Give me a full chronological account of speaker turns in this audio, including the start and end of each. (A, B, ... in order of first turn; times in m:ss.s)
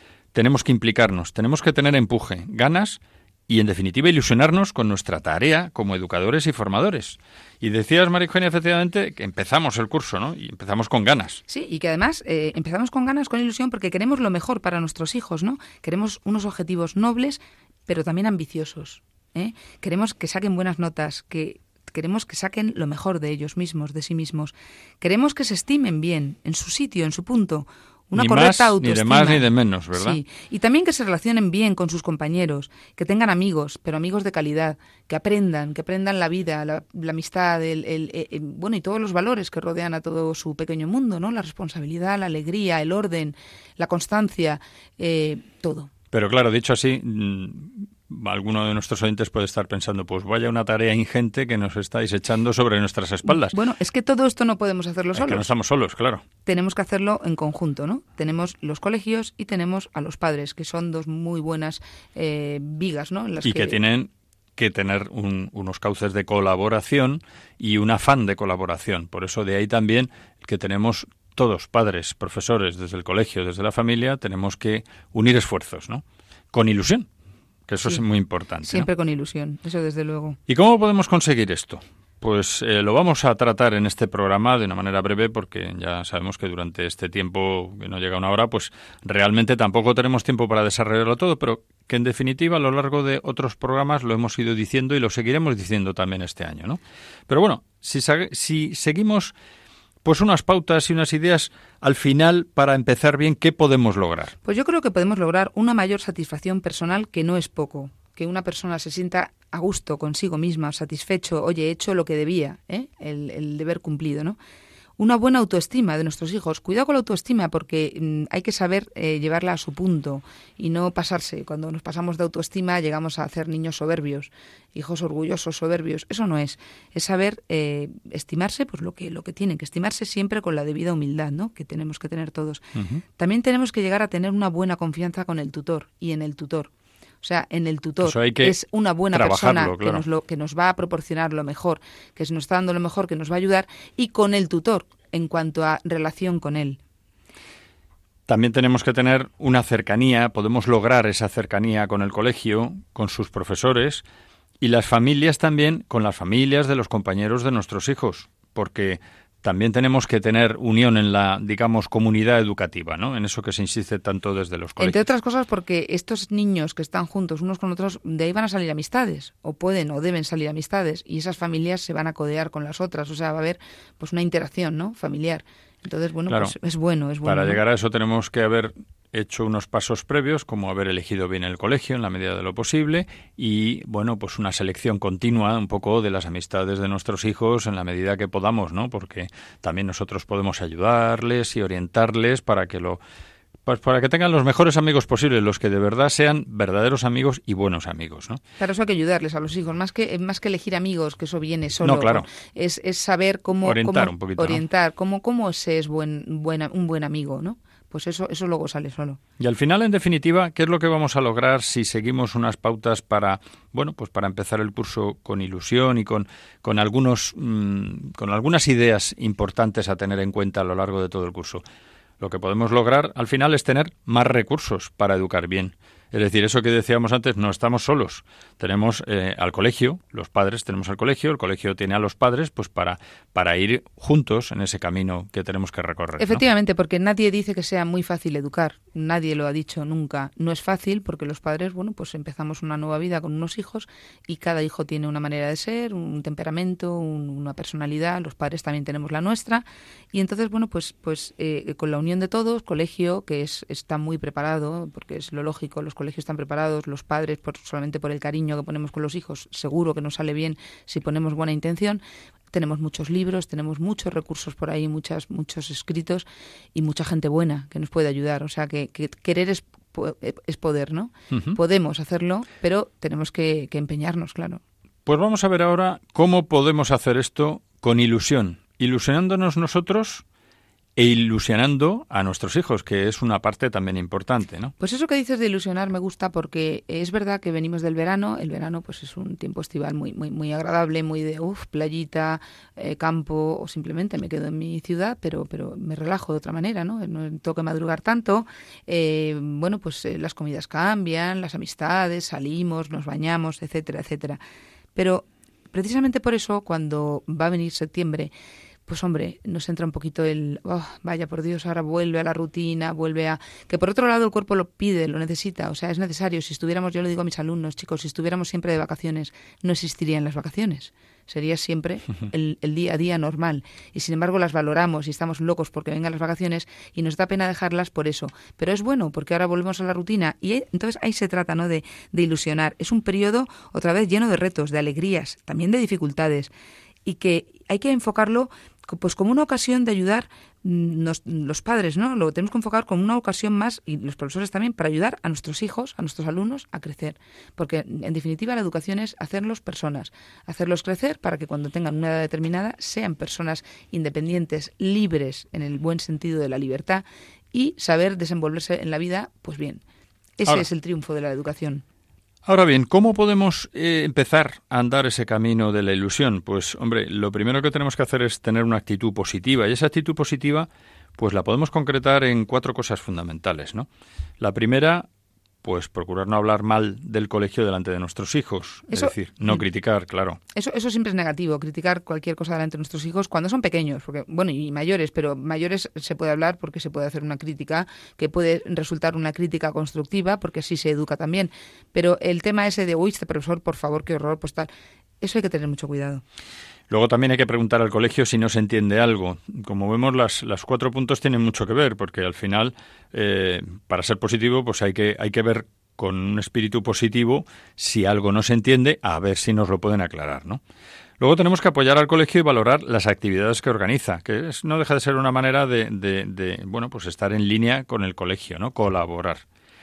0:00.3-0:11.4 A
0:11.5-0:29.4 B
0:28.2-0:30.2 A
0:30.0-0:45.9 B
0:46.1-0:53.6 A
0:53.2-0:55.5 B
0:55.1-0:56.2 A
0:56.5-1:03.8 B
1:03.4-1:17.1 A
1:17.7-1:18.9 A
1:18.7-1:20.4 B
1:20.5-1:39.3 A
1:40.0-1:44.4 A
1:44.4-1:54.4 B
1:55.0-2:12.6 B
2:12.8-2:13.0 A
2:13.2-2:16.7 B
2:17.2-2:26.8 B
2:18.0-2:18.6 A
2:19.1-2:20.0 A
2:28.3-2:34.0 A
2:34.6-2:45.0 A
2:44.8-2:57.6 B
2:56.3-2:56.5 A
2:57.2-3:13.0 A
3:13.7-3:18.4 A
3:18.6-3:29.2 B
3:21.8-3:22.3 A
3:23.6-3:24.6 A
3:29.4-3:41.6 A
3:42.2-3:56.4 A
3:56.2-4:34.6 B
4:31.3-4:31.6 A
4:35.1-4:40.2 A
4:41.0-4:44.7 A
4:44.8-5:04.4 B
5:05.0-5:08.3 B
5:08.9-5:36.5 B
5:37.1-5:59.8 B
6:00.4-6:01.8 B
6:02.5-6:13.9 A
6:14.4-6:15.1 A
6:15.6-6:20.4 A
6:18.9-6:19.6 B
6:20.5-6:34.7 B
6:35.2-6:36.2 B
6:36.9-6:50.6 A
6:51.2-6:59.4 A